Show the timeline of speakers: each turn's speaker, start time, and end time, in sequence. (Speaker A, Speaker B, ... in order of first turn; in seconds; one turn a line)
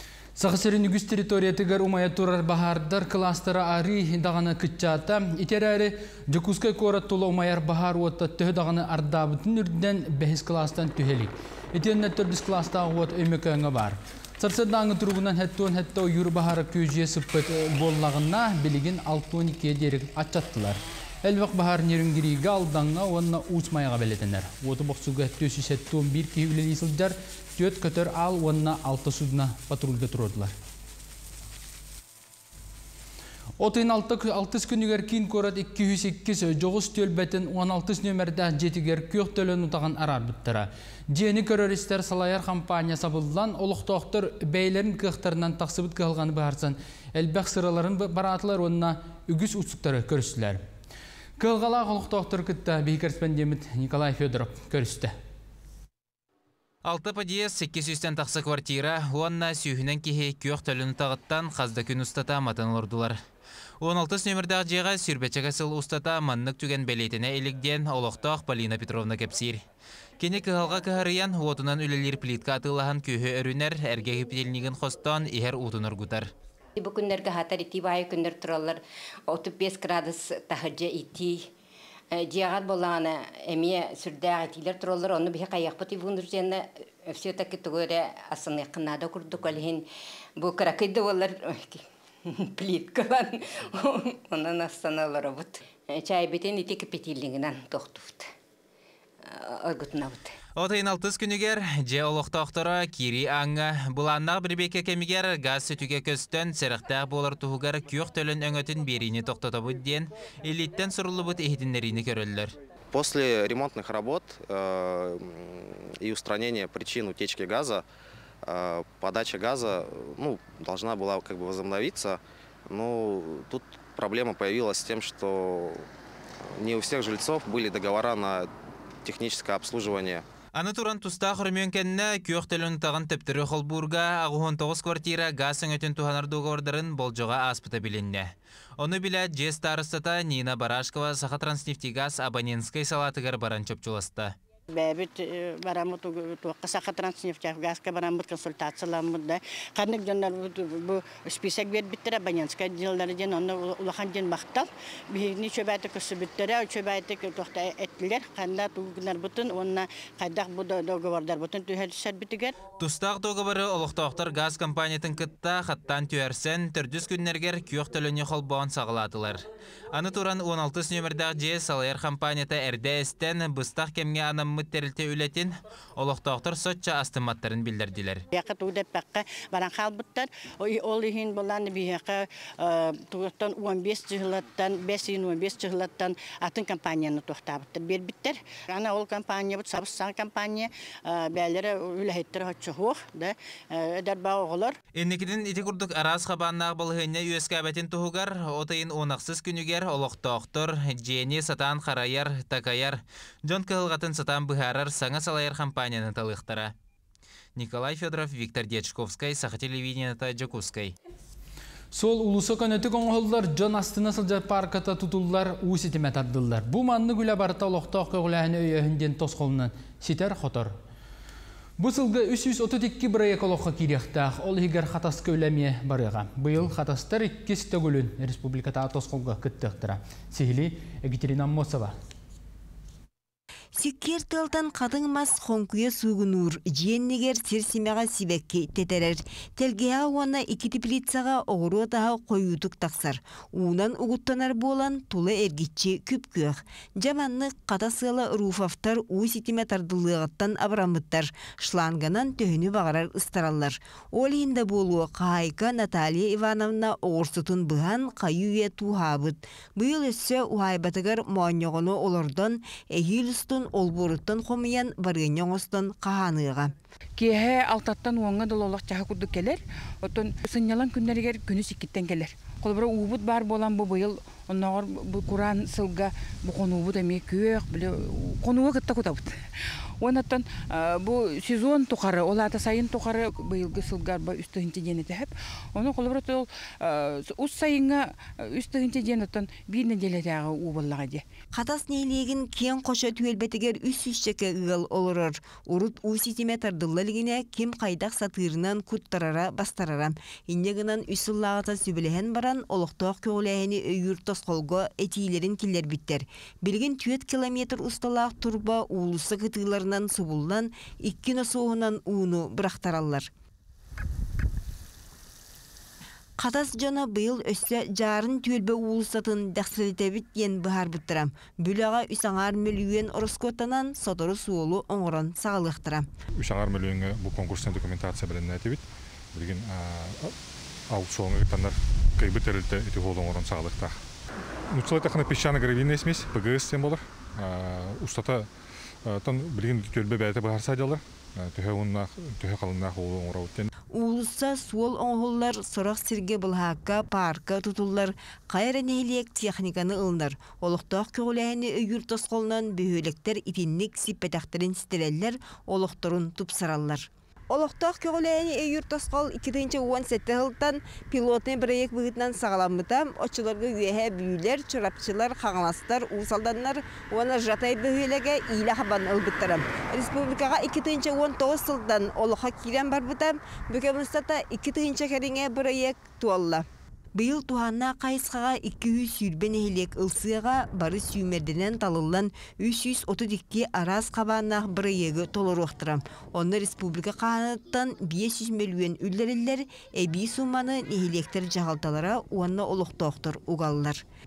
Speaker A: 0.4-30.5
Speaker A: 33.6-50.6
Speaker A: 51.4-55.1
Speaker B: 56.9-63.2
Speaker B: 63.8-69.6
Speaker B: 70.2-76.3
Speaker C: 76.8-81.5
Speaker C: 82.1-89.9
Speaker C: 90.4-98.3
Speaker C: 99.2-100.3
Speaker B: 100.6-112.5
Speaker D: 112.9-117.8
Speaker D: 118.5-125.9
Speaker D: 126.5-128.5
Speaker D: 129.0-130.2
Speaker B: 130.6-144.3
Speaker E: 144.7-162.6
Speaker B: 162.8-178.2
Speaker E: 178.3-194.8
Speaker B: 195.0-206.7
Speaker B: 207.6-210.9
Speaker A: 211.9-220.7
Speaker A: 221.8-231.9
Speaker F: 233.8-266.7
Speaker G: 267.2-279.4
Speaker G: 280.0-291.2
Speaker F: 291.5-313.3
Speaker F: 316.4-326.1
Speaker H: 326.4-330.4
Speaker H: 330.9-334.0
Speaker H: 334.7-338.5
Speaker H: 339.0-343.7
Speaker F: 343.9-394.0